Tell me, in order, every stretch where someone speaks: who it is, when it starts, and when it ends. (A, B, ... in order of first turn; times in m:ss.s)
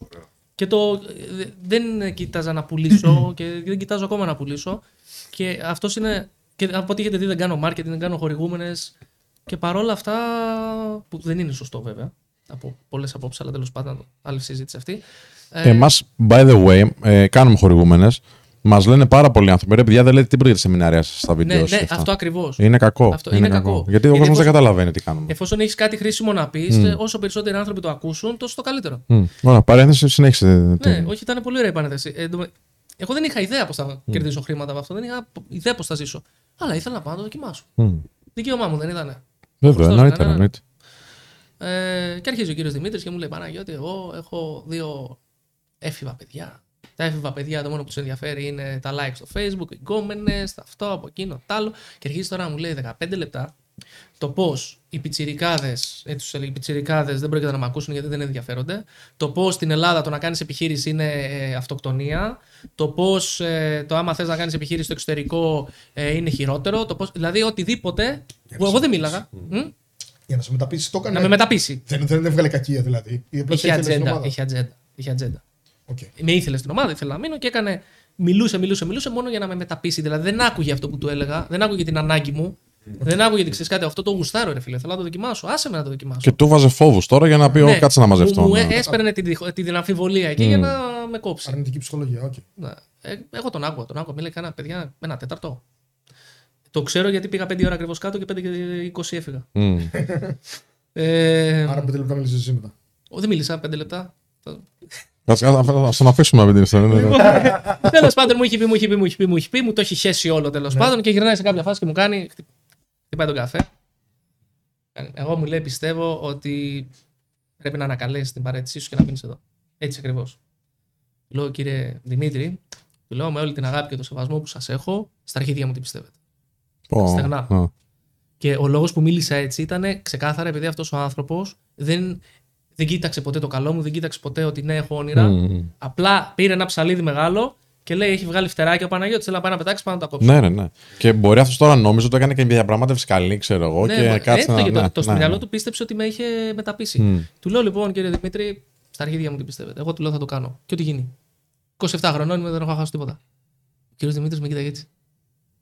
0:00.6-0:08.9 A
0:09.5-0:15.9 A
0:15.6-0:25.3 B
0:21.4-0:24.6 A
0:25.3-0:29.0 A
0:26.7-0:27.0 B
0:29.1-0:31.1 B
0:30.8-0:37.7 A
0:37.8-0:38.0 B
0:38.3-0:40.5 A
0:39.6-0:40.6 B
0:41.6-0:45.2 A
0:45.8-0:53.5 A
0:54.2-1:09.7 A
1:08.5-1:09.2 C
1:10.3-1:14.3 C
1:11.1-1:11.8 A
1:13.5-1:15.4 A
1:16.2-1:26.4 A
1:26.2-1:28.8 B
1:27.6-1:31.6 A
1:28.7-1:29.0 C
1:30.4-1:30.8 B
1:31.4-1:32.4 C
1:32.6-1:35.6 A
1:36.7-1:39.5 A
1:39.5-1:39.9 B
1:39.9-1:40.4 C
1:40.9-1:41.9 A
1:41.6-1:42.7 C
1:43.1-1:44.8 A
1:45.3-1:47.2 B
1:46.9-1:52.4 A
1:47.2-1:47.5 C
1:53.1-1:53.7 A
1:55.0-1:56.9 A
1:57.6-2:00.4 A
2:01.3-2:06.1 A
2:06.9-2:07.7 B
2:07.0-2:07.5 A
2:08.4-2:12.2 A
2:12.8-2:20.4 A
2:15.2-2:15.7 B
2:20.2-2:25.4 B
2:23.8-2:31.1 A
2:27.0-2:27.3 B
2:31.8-2:33.2 A
2:34.0-2:34.9 A